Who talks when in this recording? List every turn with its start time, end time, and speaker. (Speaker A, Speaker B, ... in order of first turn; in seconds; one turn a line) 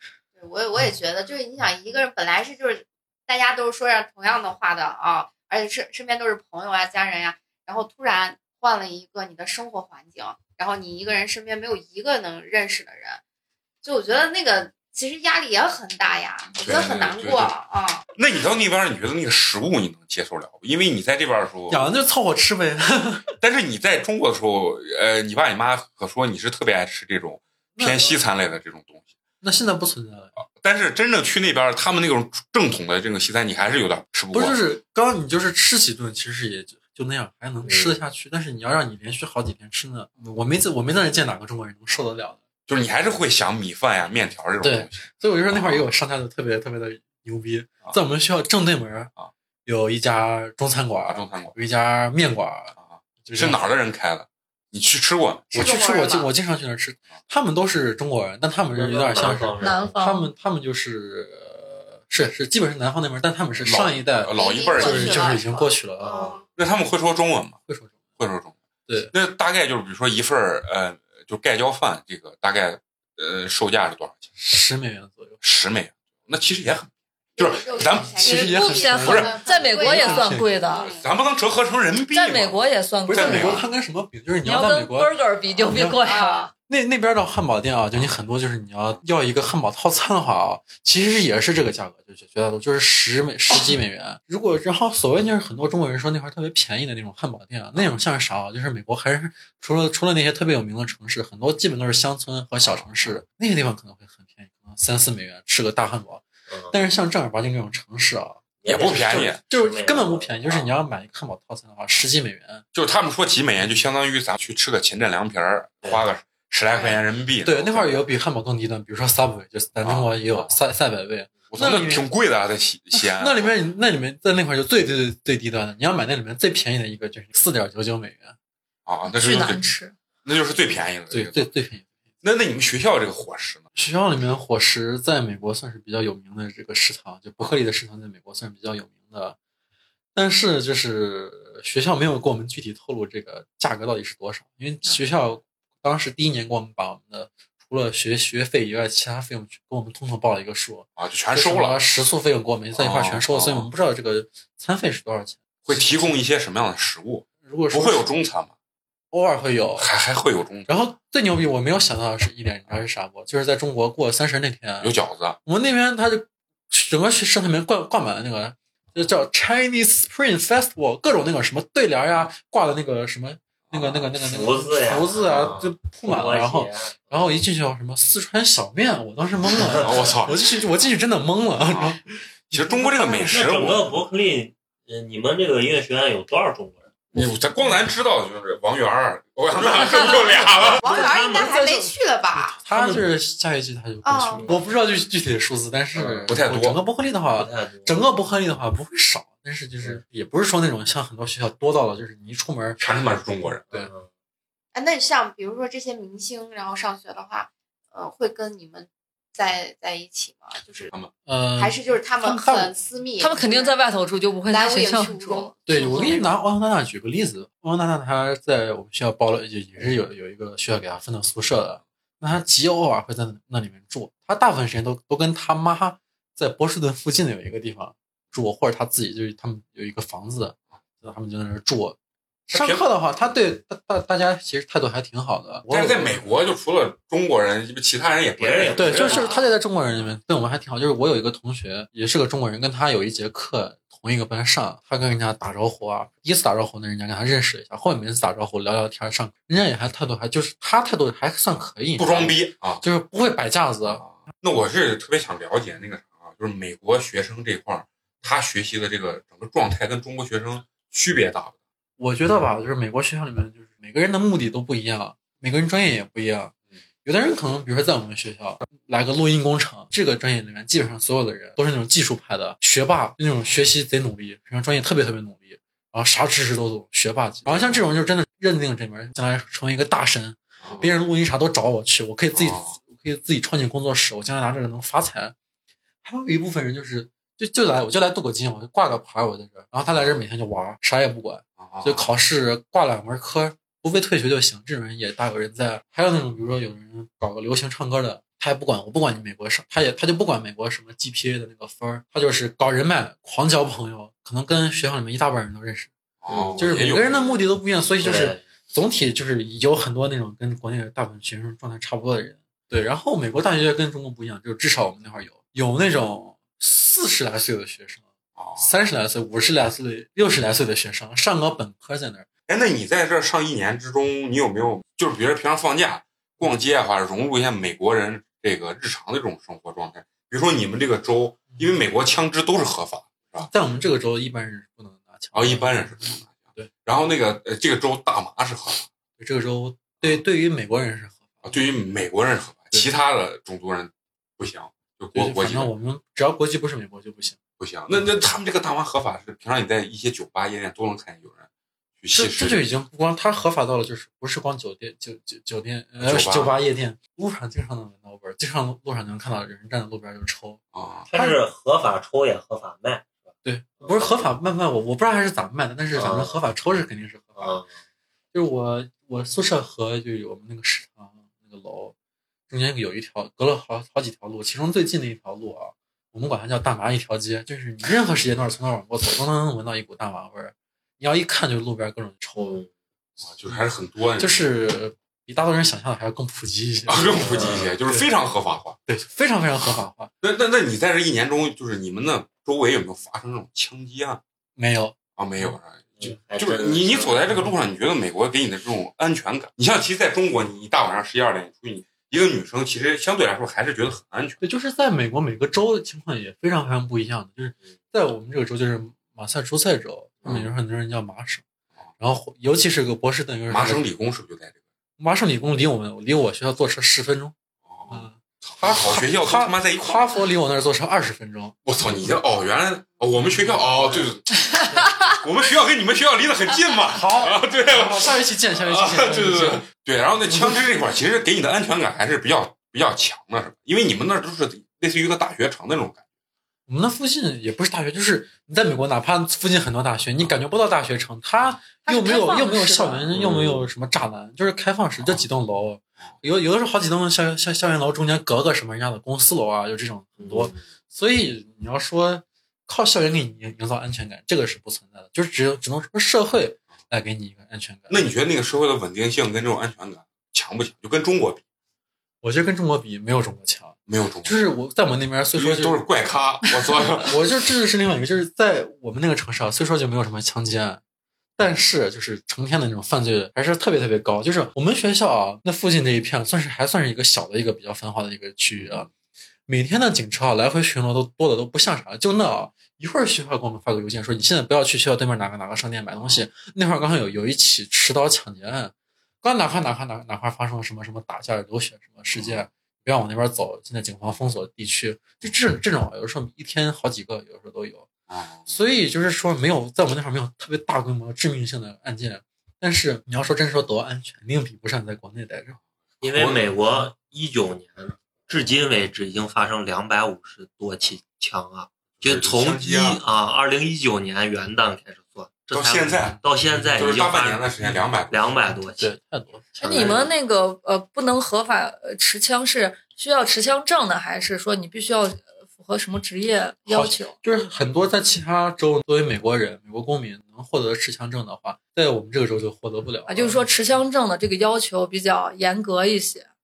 Speaker A: 0.3-13.2
Speaker A: 13.8-18.0
Speaker B: 16.5-17.5
Speaker B: 18.1-21.9
Speaker C: 21.7-23.3
Speaker B: 23.4-29.1
Speaker C: 27.8-28.2
Speaker C: 29.4-30.4
Speaker B: 30.5-34.6
Speaker C: 34.3-42.4
Speaker D: 37.6-38.0
Speaker B: 42.7-45.9
Speaker C: 44.6-49.1
Speaker C: 49.6-53.6
Speaker B: 51.1-51.5
Speaker B: 52.8-55.7
Speaker C: 55.5-66.3
Speaker A: 55.5-56.3
Speaker D: 58.7-60.0
Speaker E: 59.6-60.3
Speaker B: 63.6-65.4
Speaker A: 64.3-66.5
Speaker E: 64.4-65.4
Speaker D: 66.1-66.4
Speaker B: 66.5-67.6
Speaker C: 67.7-68.0
Speaker B: 68.2-68.5
Speaker C: 68.9-69.1
Speaker B: 69.1-74.3
Speaker C: 74.4-75.4
Speaker B: 75.4-78.4
Speaker A: 77.3-81.1
Speaker C: 78.2-80.5
Speaker E: 78.2-80.9
Speaker B: 78.9-79.3
Speaker B: 80.8-83.6
Speaker E: 81.9-83.6
Speaker C: 83.1-86.0
Speaker E: 84.4-86.5
Speaker A: 86.0-86.5
Speaker C: 86.7-112.6
Speaker B: 102.6-103.1
Speaker D: 106.5-106.8
Speaker D: 108.6-110.7
Speaker B: 108.7-109.4
Speaker B: 112.7-118.0
Speaker C: 117.4-122.1
Speaker B: 119.8-120.6
Speaker B: 121.5-123.5
Speaker C: 122.9-128.3
Speaker B: 128.8-129.7
Speaker E: 129.0-129.9
Speaker B: 130.2-131.5
Speaker C: 131.1-131.9
Speaker B: 132.2-133.7
Speaker C: 133.7-139.4
Speaker C: 140.1-156.2
Speaker B: 151.0-151.8
Speaker B: 152.7-153.7
Speaker B: 155.7-158.5
Speaker C: 157.4-158.1
Speaker C: 159.1-159.9
Speaker B: 159.8-160.7
Speaker C: 160.7-164.9
Speaker B: 164.8-165.4
Speaker C: 165.4-183.5
Speaker B: 173.7-174.1
Speaker D: 174.1-177.3
Speaker B: 179.7-180.3
Speaker B: 181.6-182.0
Speaker B: 182.5-183.9
Speaker D: 183.3-187.1
Speaker B: 187.1-190.8
Speaker D: 190.8-191.9
Speaker A: 190.8-192.6
Speaker C: 192.6-203.2
Speaker D: 192.7-193.0
Speaker A: 194.0-194.5
Speaker D: 194.3-194.6
Speaker D: 195.9-196.3
Speaker B: 196.3-196.8
Speaker D: 197.3-198.1
Speaker B: 202.8-203.6
Speaker D: 203.6-204.1
Speaker A: 204.7-210.9
Speaker C: 211.2-212.7
Speaker A: 211.6-213.7
Speaker E: 213.2-216.3
Speaker A: 214.5-216.3
Speaker C: 215.7-236.2
Speaker B: 232.5-232.8
Speaker B: 235.7-239.3
Speaker D: 238.4-239.3
Speaker C: 238.7-254.1
Speaker B: 252.0-252.8
Speaker B: 254.0-261.5
Speaker C: 262.0-266.5
Speaker C: 267.0-285.3
Speaker B: 277.4-277.8
Speaker B: 280.6-280.9
Speaker B: 282.3-282.7
Speaker C: 286.0-305.9
Speaker B: 291.6-292.1
Speaker B: 306.2-307.2
Speaker D: 306.3-306.6
Speaker C: 306.5-318.0
Speaker D: 308.0-308.4
Speaker B: 318.4-318.7
Speaker C: 318.6-322.3
Speaker B: 322.5-333.5
Speaker C: 333.5-336.7
Speaker B: 335.3-338.9
Speaker C: 339.2-341.6
Speaker B: 341.4-345.7
Speaker C: 345.1-347.4
Speaker B: 347.6-351.5
Speaker B: 352.0-352.7
Speaker C: 352.1-361.4
Speaker B: 356.0-356.5
Speaker B: 360.7-361.1
Speaker D: 361.1-364.3
Speaker C: 363.4-367.6
Speaker D: 365.9-366.4
Speaker D: 367.4-367.7
Speaker C: 368.3-371.9
Speaker C: 372.5-382.6
Speaker D: 382.4-382.7
Speaker B: 383.2-384.5
Speaker C: 384.2-388.1
Speaker B: 386.9-388.8
Speaker D: 387.2-387.7
Speaker C: 388.9-390.1
Speaker B: 390.2-394.2
Speaker C: 394.6-395.5
Speaker B: 395.2-404.4
Speaker D: 396.0-397.4
Speaker C: 404.4-411.4
Speaker C: 412.0-413.9
Speaker B: 413.5-414.6
Speaker C: 415.0-417.3
Speaker B: 417.7-420.1
Speaker C: 417.9-421.6
Speaker B: 421.6-424.5
Speaker B: 425.0-436.0
Speaker C: 426.9-429.7
Speaker C: 430.2-430.7
Speaker C: 436.7-458.1
Speaker E: 441.8-443.1
Speaker D: 443.1-443.7
Speaker D: 450.2-450.6
Speaker B: 457.9-461.4
Speaker C: 462.2-465.8
Speaker B: 463.9-464.4
Speaker B: 465.4-467.2
Speaker C: 467.0-470.8
Speaker C: 471.4-478.9
Speaker C: 479.5-497.9
Speaker B: 492.1-492.4
Speaker B: 498.1-498.5
Speaker C: 498.5-505.6
Speaker B: 506.0-506.5
Speaker D: 506.0-517.5
Speaker B: 512.0-513.0
Speaker B: 515.5-518.4
Speaker C: 516.1-516.7
Speaker D: 518.1-518.9
Speaker C: 518.6-520.0
Speaker D: 519.5-520.1
Speaker E: 519.6-527.1
Speaker C: 526.7-533.5
Speaker E: 533.1-536.3